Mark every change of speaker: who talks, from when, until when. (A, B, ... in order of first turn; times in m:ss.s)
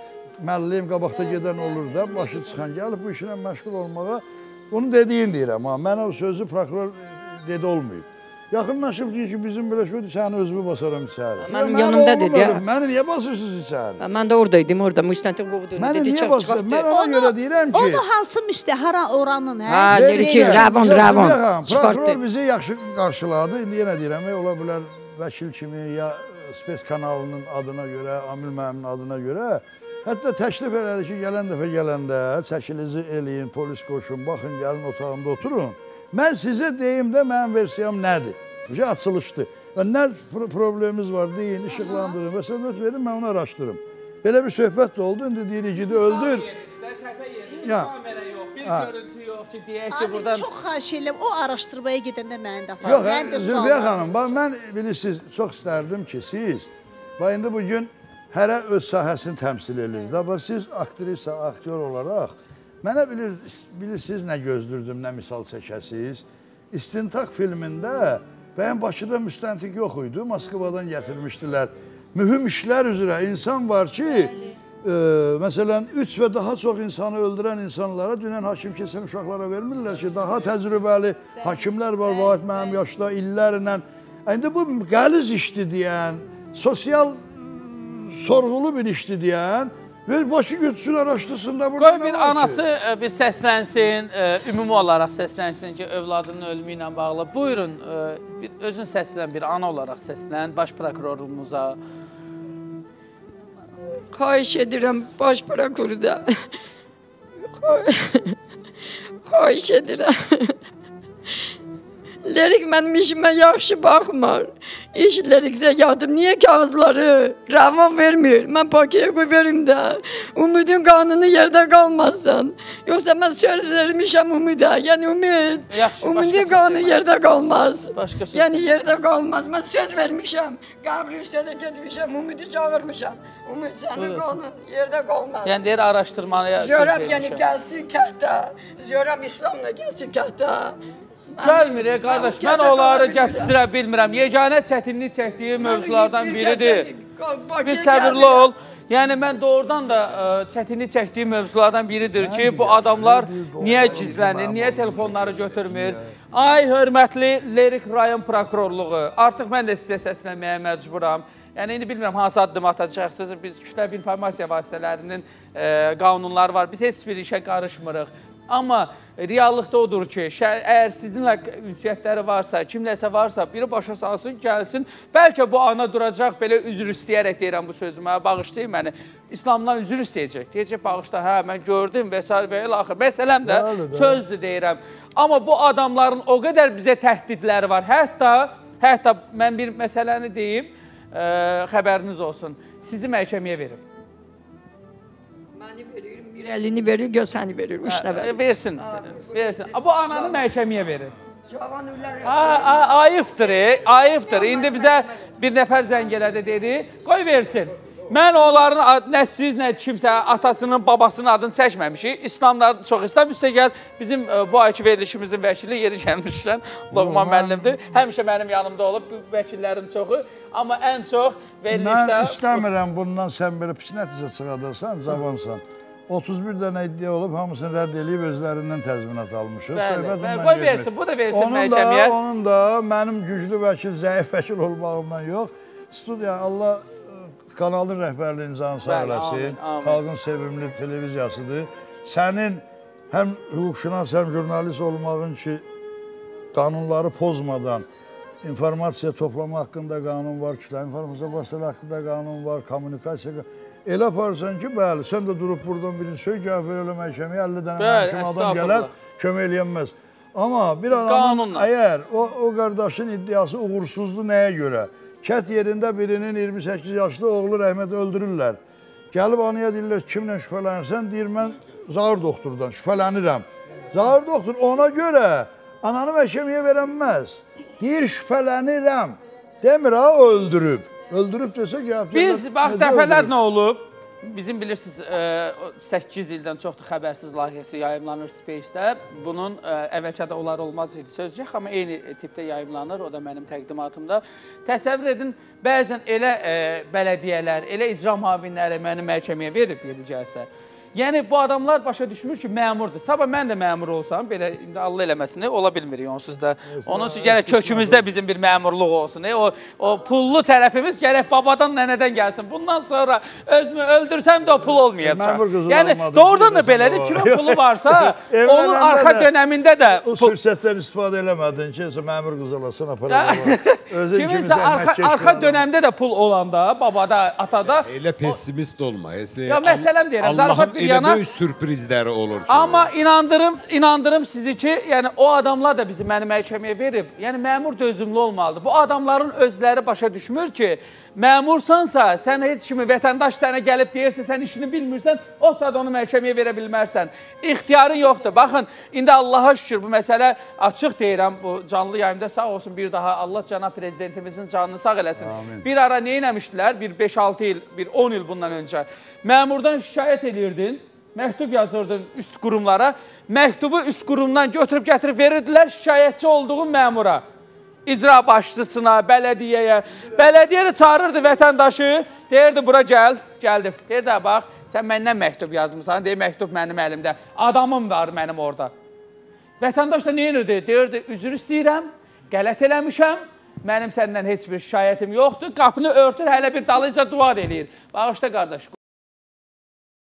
0:00.4-0:14.0 A
0:11.4-0:12.6 B
0:14.0-0:16.9 B
0:15.8-0:18.0 A
0:16.9-0:21.3 C
0:19.7-0:22.2 B
0:19.9-0:46.5 A
0:41.8-0:42.2 C
0:45.8-0:50.5 D
0:47.6-0:47.9 A
0:48.6-0:48.9 A
0:49.9-0:54.4 C
0:52.8-1:32.6 A
1:31.8-1:41.8 D
1:44.1-1:46.3 B
1:47.5-1:48.4 B
1:49.3-1:50.6 B
1:52.3-2:15.6 B
2:05.7-2:08.8 D
2:14.0-2:14.4 D
2:15.4-2:17.4 D
2:16.6-2:20.8 B
2:21.4-2:23.5 B
2:21.4-2:26.9 D
2:25.6-2:28.5 B
2:27.6-3:13.8 D
2:32.2-2:36.2 A
3:03.4-3:04.2 A
3:15.6-3:20.5 B
3:17.8-3:21.2 D
3:21.5-3:23.0 B
3:22.2-3:42.6 D
3:23.7-3:25.3 B
3:36.9-3:37.8 A
3:41.7-4:05.6 A
3:49.7-3:52.2 D
3:58.8-4:00.0 D
4:06.5-4:07.9 A
4:08.4-4:28.6 A
4:17.8-4:18.9 D
4:20.9-4:21.7 D
4:29.1-4:43.3 A
4:42.1-5:20.4 D
5:06.7-5:08.1 A
5:14.5-5:19.3 A
5:19.9-5:25.7 A
5:23.1-5:27.9 D
5:27.7-5:32.9 E
5:29.5-5:31.2 D
5:32.5-6:07.2 D
5:55.2-5:55.7 A
6:07.9-6:18.7 D
6:19.6-6:28.7 D